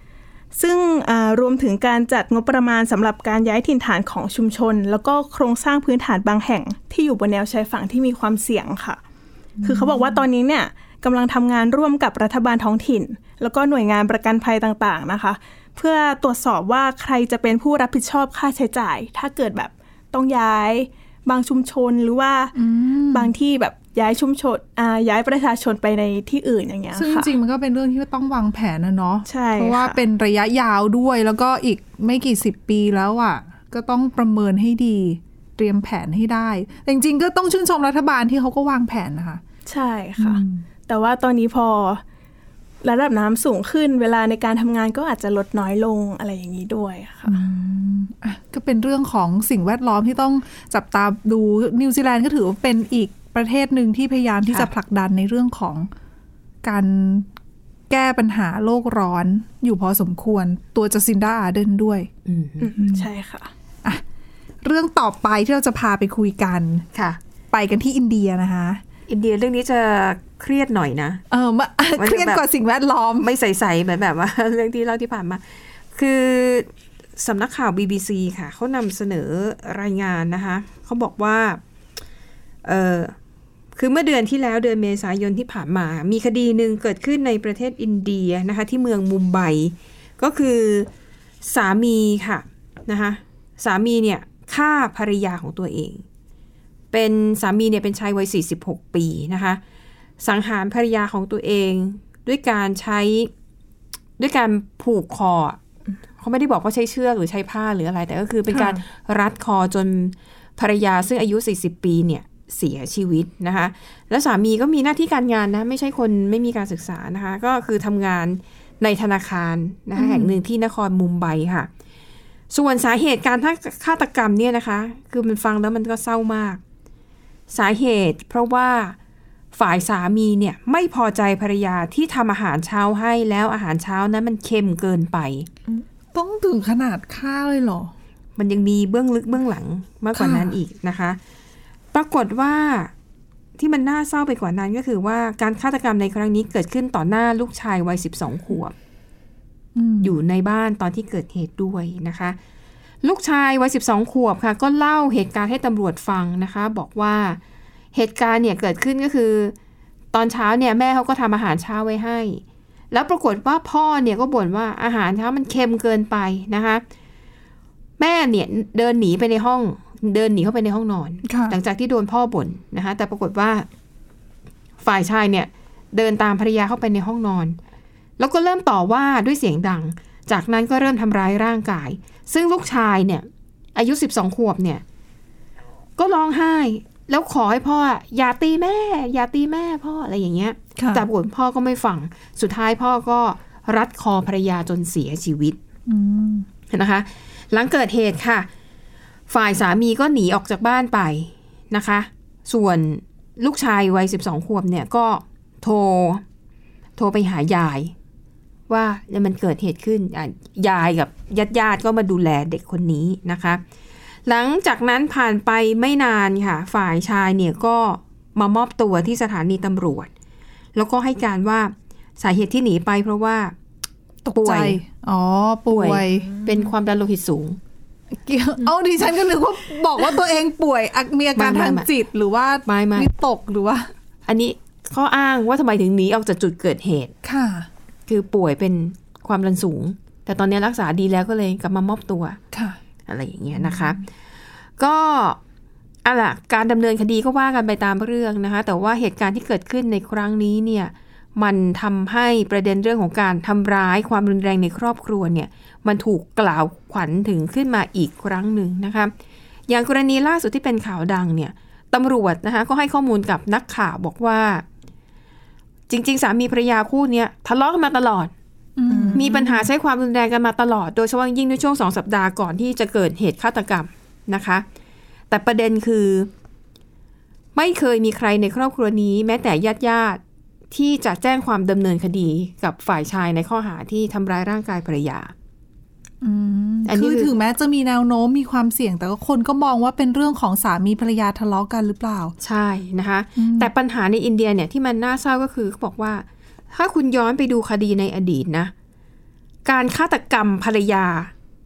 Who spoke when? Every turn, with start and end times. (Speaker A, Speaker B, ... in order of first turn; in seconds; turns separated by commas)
Speaker A: 0.6-9.0, Speaker B: 9.6-10.2, Speaker A: 9.6-22.6, Speaker B: 22.6-23.3, Speaker A: 23.1-27.3, Speaker B: 26.9-39.4, Speaker A: 29.3-30.0, Speaker A: 39.7-42.0, Speaker B: 40.2-40.6, Speaker A: 42.8-47.4, Speaker B: 47.3-55.9, Speaker B: 56.6-57.3, Speaker B: 57.9-62.1, Speaker C: 62.3-62.7, Speaker A: 62.6-63.5, Speaker B: 62.8-63.1, Speaker B: 64.6-66.9, Speaker C: 66.9-67.2, Speaker B: 67.5-68.8, Speaker C: 69.1-71.2, Speaker B: 71.3-73.3, Speaker C: 72.0-72.4, Speaker C: 73.2-81.6, Speaker C: 82.6-83.1, Speaker C: 83.8-90.9, Speaker C: 91.4-96.0, Speaker C: 96.9-99.6, Speaker C: 100.2-103.3, Speaker C: 104.2-105.6, Speaker C: 106.2-121.7, Speaker B: 120.0-120.4, Speaker C: 122.5-126.6, Speaker C: 127.5-129.0, Speaker C: 129.5-135.5, Speaker B: 136.1-137.9, Speaker C: 138.4-141.2, Speaker B: 140.2-140.6, Speaker C: 141.9-142.9, Speaker C: 143.6-148.7, Speaker B: 149.8-150.1, Speaker C: 150.0-152.4, Speaker C: 153.0-157.4, Speaker C: 157.9-159.6, Speaker C: 160.1-166.8, Speaker C: 168.0-173.7, Speaker B: 171.2-171.6, Speaker C: 174.8-177.6, Speaker C: 178.2-184.8, Speaker C: 186.0-195.6, Speaker B: 190.8-191.1, Speaker B: 195.9-196.5, Speaker C: 196.7-198.5, Speaker C: 199.3-206.2, Speaker C: 207.0-207.9, Speaker C: 208.7-213.6, Speaker C: 214.3-220.1, Speaker C: 220.8-223.6, Speaker B: 224.2-226.4, Speaker C: 224.4-224.8, Speaker C: 225.7-227.6, Speaker B: 228.2-233.9, Speaker C: 231.4-231.9, Speaker C: 232.7-233.1, Speaker C: 234.3-237.1, Speaker B: 237.2-237.7, Speaker C: 238.1-242.4, Speaker B: 242.5-242.8, Speaker C: 243.1-244.0, Speaker B: 243.6-243.9, Speaker C: 244.8-245.4, Speaker C: 246.1-259.1, Speaker C: 259.7-264.6, Speaker C: 265.9-268.3, Speaker B: 268.8-269.7, Speaker A: 268.9-269.2, Speaker C: 269.1-274.6, Speaker C: 275.3-276.3, Speaker C: 277.6-280.2, Speaker C: 280.7-285.3, Speaker B: 286.2-292.3, Speaker C: 286.9-287.3, Speaker C: 292.4-298.7, Speaker B: 293.4-293.7, Speaker C: 299.6-301.3